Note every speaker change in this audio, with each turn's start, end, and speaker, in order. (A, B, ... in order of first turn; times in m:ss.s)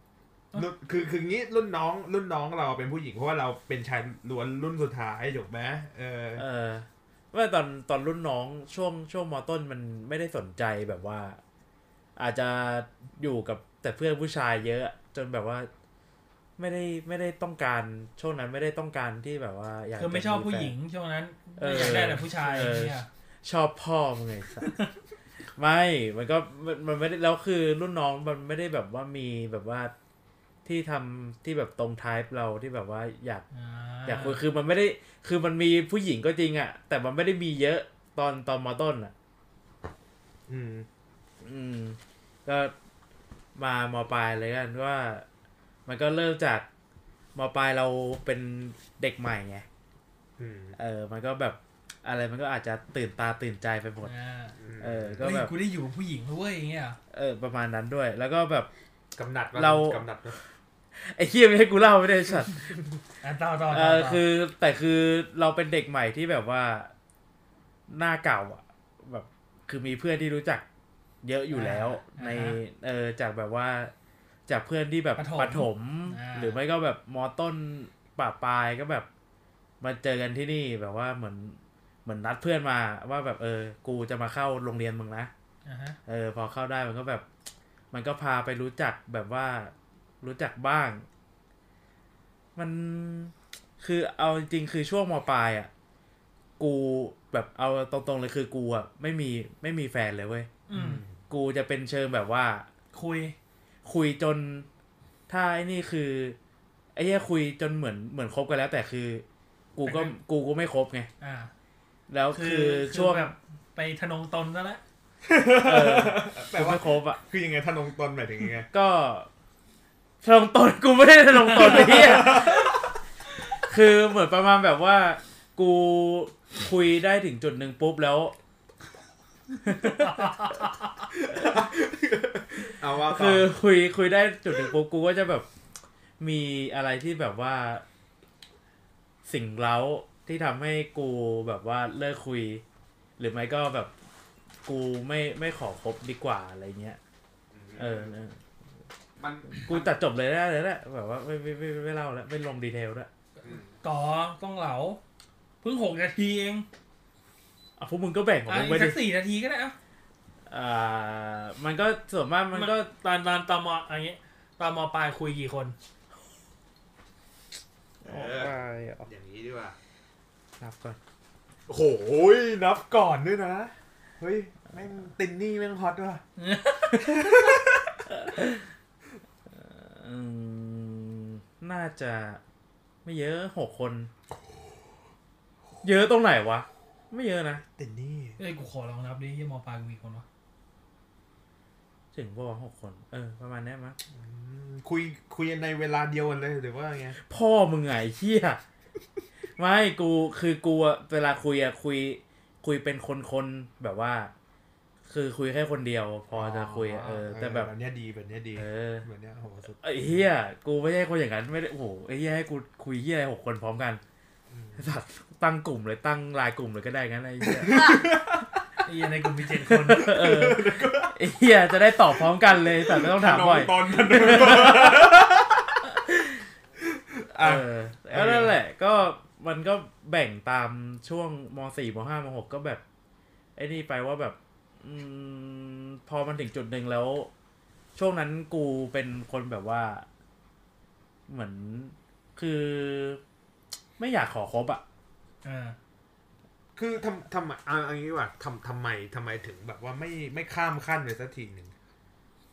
0:00.5-0:06.4 A
0:06.4-0:11.4 B
0:12.2-0:15.7 B
0:16.6-0:20.8 B
0:20.0-0:23.1 C
0:21.6-0:24.8 B
0:25.6-0:29.9 B
0:30.6-0:33.4 B
0:33.5-0:34.4 C
0:34.1-0:39.1 B
0:40.5-0:40.9 A
0:41.4-0:42.7 B
0:43.6-0:45.3 B
0:45.9-0:46.6 B
0:47.4-0:49.7 B
0:50.4-0:50.8 A
0:50.8-0:54.1 B
0:54.0-0:54.6 C
0:54.6-0:55.4 A
0:54.8-0:55.5 B
0:55.2-0:57.0 C
0:57.1-0:58.7 B
0:59.2-1:00.4 A
0:59.6-1:00.4 B
1:00.9-1:02.8 B
1:03.2-1:04.2 C
1:03.7-1:06.9 B
1:07.9-1:10.6 B
1:11.2-1:13.9 B
1:11.5-1:12.6 C
1:14.5-1:19.1 B
1:15.2-1:16.6 C
1:19.8-1:25.3 B
1:25.6-1:26.0 C
1:26.1-1:27.3 B
1:27.9-1:31.0 B
1:32.6-1:35.7 B
1:36.6-1:40.5 B
1:40.7-1:41.0 C
1:40.7-1:41.2 A
1:41.3-1:42.7 B
1:42.9-1:43.4 C
1:43.8-1:44.7 B
1:45.3-1:46.4 B
1:47.0-1:49.2 B
1:49.8-1:51.1 B
1:49.8-1:50.1 C
1:51.2-1:51.5 C
1:52.1-1:53.3 B
1:52.3-1:54.8 C
1:55.2-1:58.7 A
1:55.6-1:57.2 B
1:58.7-1:59.3 B
2:00.2-2:02.8 B
2:01.5-2:02.7 A
2:03.6-2:08.3 B
2:09.6-2:10.7 B
2:11.1-2:13.5 A
2:12.7-2:15.5 B
2:16.2-2:17.8 B
2:19.3-2:22.6 B
2:23.2-2:23.9 B
2:24.6-2:27.0 B
2:27.5-2:28.1 A
2:27.8-2:28.4 B
2:29.2-2:30.0 A
2:29.5-2:33.1 B
2:33.4-2:33.7 A
2:33.8-2:35.0 C
2:35.6-2:36.7 C
2:37.8-2:39.0 B
2:38.5-2:39.8 C
2:40.5-2:42.9 B
2:42.5-2:45.8 C
2:48.0-2:49.1 B
2:48.1-2:49.8 A
2:50.6-2:51.0 B
2:51.7-2:56.2 A
2:56.4-2:57.2 C
2:57.0-2:57.9 A
2:58.1-2:58.6 B
2:59.5-3:02.4 B
3:03.0-3:04.1 B
3:05.8-3:07.6 B
3:07.6-3:08.4 A
3:08.4-3:10.2 C
3:12.1-3:14.0 B
3:14.1-3:17.2 A
3:17.3-3:18.6 B
3:19.6-3:24.3 B
3:25.1-3:27.7 B
3:26.3-3:30.2 A
3:28.6-3:29.1 B
3:29.8-3:34.0 B
3:34.5-3:34.9 A
3:34.8-3:38.0 B
3:37.4-3:38.5 A
3:38.8-3:40.2 C
3:39.7-3:41.2 A
3:39.8-3:45.4 B
3:42.2-3:45.9 A
3:46.8-3:48.6 A
3:47.4-3:52.8 B
3:53.6-3:57.3 B
3:58.0-4:00.1 B
4:01.3-4:03.2 B
4:04.0-4:04.8 B
4:05.4-4:05.8 C
4:06.8-4:11.7 A